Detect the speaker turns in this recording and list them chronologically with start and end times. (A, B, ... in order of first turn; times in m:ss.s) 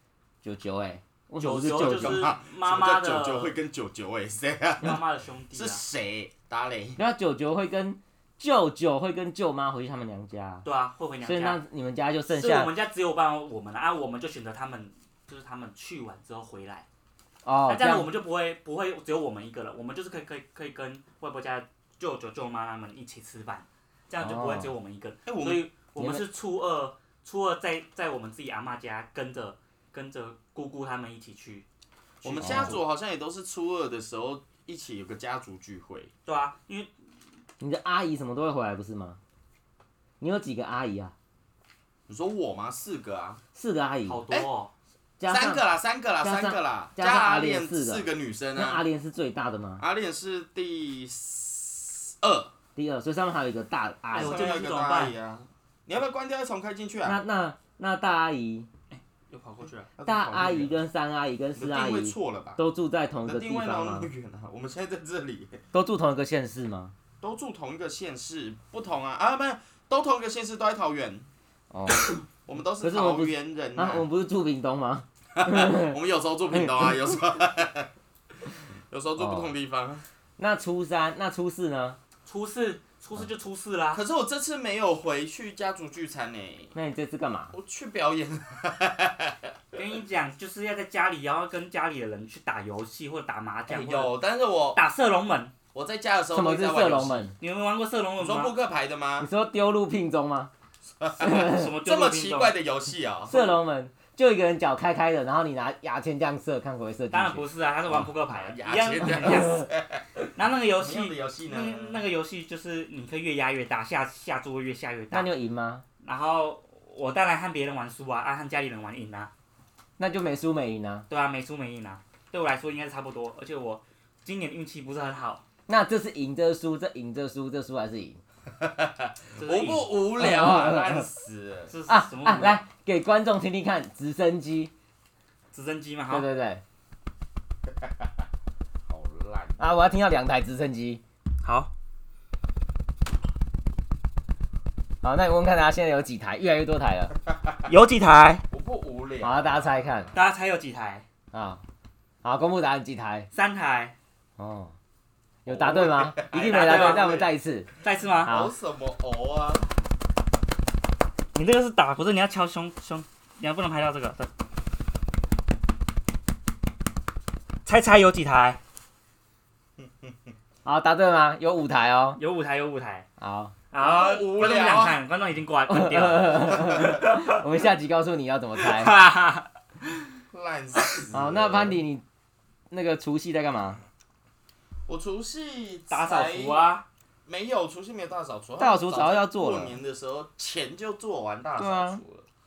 0:00.4-0:02.2 A
0:01.4-0:03.6 B
0:01.7-0:05.0 C
0:04.8-0:05.8 B
0:05.5-0:07.0 C
0:07.0-0:10.6 A
0:10.6-0:11.6 B
0:11.2-0:12.7 A
0:12.3-0:16.8 B
0:17.4-0:18.1 A
0:17.7-0:31.6 B
0:24.2-0:24.7 A
0:25.2-0:25.7 C
0:26.0-0:26.2 A
0:32.2-0:32.8 B
0:32.2-0:36.1 C
0:32.4-0:32.8 A
0:36.2-0:36.9 B
0:37.6-0:39.2 A
0:40.2-0:41.1 A
0:42.1-0:43.4 C
0:43.5-0:44.2 A
0:44.0-0:44.7 B
0:45.2-0:45.6 A
0:45.3-0:48.8 C
0:46.2-0:49.8 A
0:49.8-0:52.5 C
0:52.8-0:54.6 A
0:54.1-0:55.1 B
0:54.1-0:57.2 C
0:57.0-0:58.7 A
0:58.9-0:59.9 B
1:00.0-1:00.8 C
1:00.0-1:04.1 A
1:01.6-1:02.6 C
1:03.2-1:05.6 C
1:05.7-1:06.9 A
1:07.2-1:11.3 C
1:11.7-1:12.1 A
1:12.4-1:14.0 C
1:12.8-1:16.0 A
1:15.4-1:17.9 C
1:16.5-1:17.1 A
1:18.4-1:20.0 C
1:19.2-1:19.5 A
1:20.4-1:22.0 A
1:22.2-1:24.0 B
1:23.9-1:26.7 C
1:26.7-1:27.5 A
1:27.5-1:29.5 C
1:29.7-1:34.2 B
1:33.7-1:34.8 C
1:34.7-1:35.5 B
1:35.7-1:37.3 C
1:36.3-1:37.3 A
1:37.4-1:38.6 B
1:38.2-1:39.3 C
1:39.2-1:40.5 A
1:41.0-1:43.3 C
1:41.2-1:41.7 A
1:41.4-1:42.6 B
1:43.3-1:47.4 A
1:47.1-1:49.7 B
1:47.9-1:50.1 C
1:50.4-1:55.3 B
1:50.8-1:52.0 C
1:55.1-1:55.8 A
1:56.0-1:59.3 B
2:00.0-2:01.1 A
2:01.1-2:05.4 B
2:05.7-2:08.2 A
2:08.6-2:11.7 C
2:09.4-2:09.9 B
2:10.2-2:11.0 A
2:11.7-2:12.6 B
2:11.9-2:14.7 A
2:15.5-2:16.3 B
2:16.1-2:16.6 A
2:18.9-2:19.6 C
2:19.6-2:21.0 A
2:21.4-2:21.7 B
2:25.0-2:27.1 A
2:27.7-2:28.4 B
2:28.5-2:30.1 C
2:29.2-2:30.1 A
2:30.1-2:31.0 B
2:31.3-2:31.6 A
2:32.2-2:33.3 A
2:33.3-2:33.9 B
2:34.4-2:34.7 A
2:35.4-2:37.7 A
2:35.5-2:37.3 C
2:36.3-2:37.2 B
2:37.8-2:38.3 B
2:38.2-2:38.5 A
2:38.3-2:39.7 C
2:41.3-2:44.3 B
2:47.6-2:48.6 B
2:50.6-2:52.2 A
2:52.2-2:53.1 B
2:53.2-2:53.6 A
2:53.7-2:57.4 B
2:53.8-2:55.0 C
2:55.7-2:59.0 A
2:58.6-3:00.0 B
3:00.3-3:01.8 C
3:01.1-3:02.0 A
3:02.7-3:03.8 A
3:04.9-3:06.6 C
3:05.9-3:06.8 B
3:07.3-3:12.3 C
3:08.6-3:09.7 A
3:11.6-3:12.0 A